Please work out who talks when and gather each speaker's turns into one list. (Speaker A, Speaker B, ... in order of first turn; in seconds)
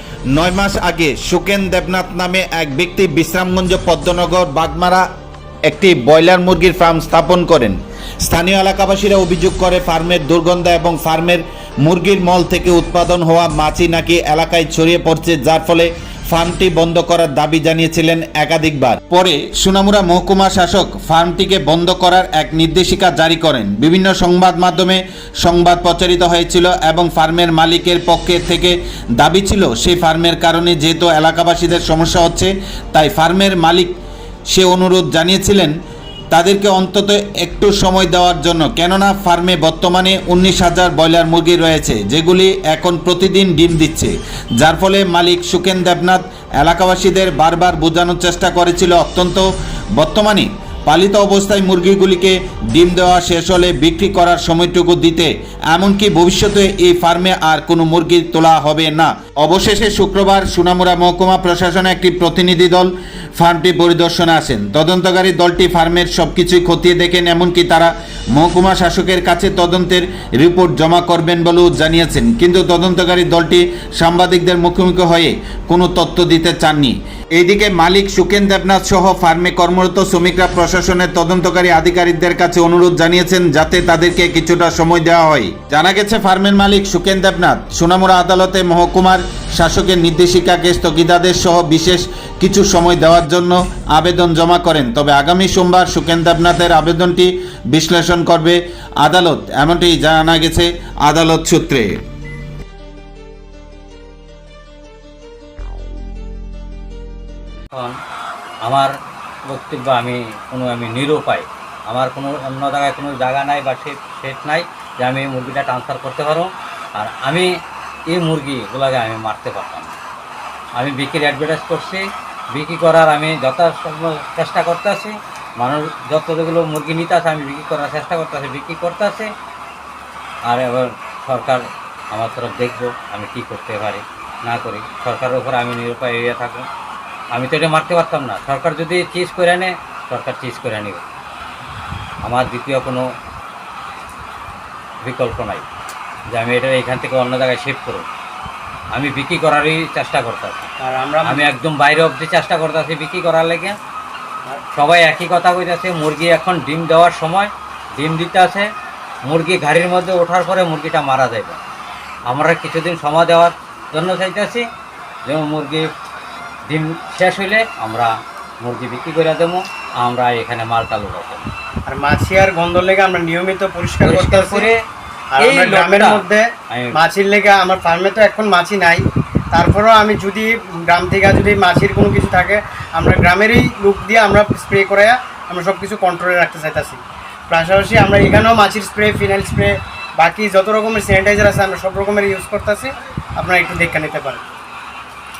Speaker A: 0.3-5.0, 5.7-33.9, 34.5-35.7, 36.3-49.5, 50.0-102.0
Speaker B: 108.6-108.9, 109.5-117.5, 118.1-119.9, 120.8-129.3, 130.5-136.7, 137.3-141.0, 142.2-143.0, 145.0-145.7, 146.3-148.1, 148.9-150.7, 151.2-153.8, 154.7-158.7, 159.2-161.6, 162.3-164.6, 165.2-165.9, 166.7-171.5, 174.0-174.8, 175.4-177.0
Speaker C: 150.8-151.5, 171.9-174.7, 175.3-194.4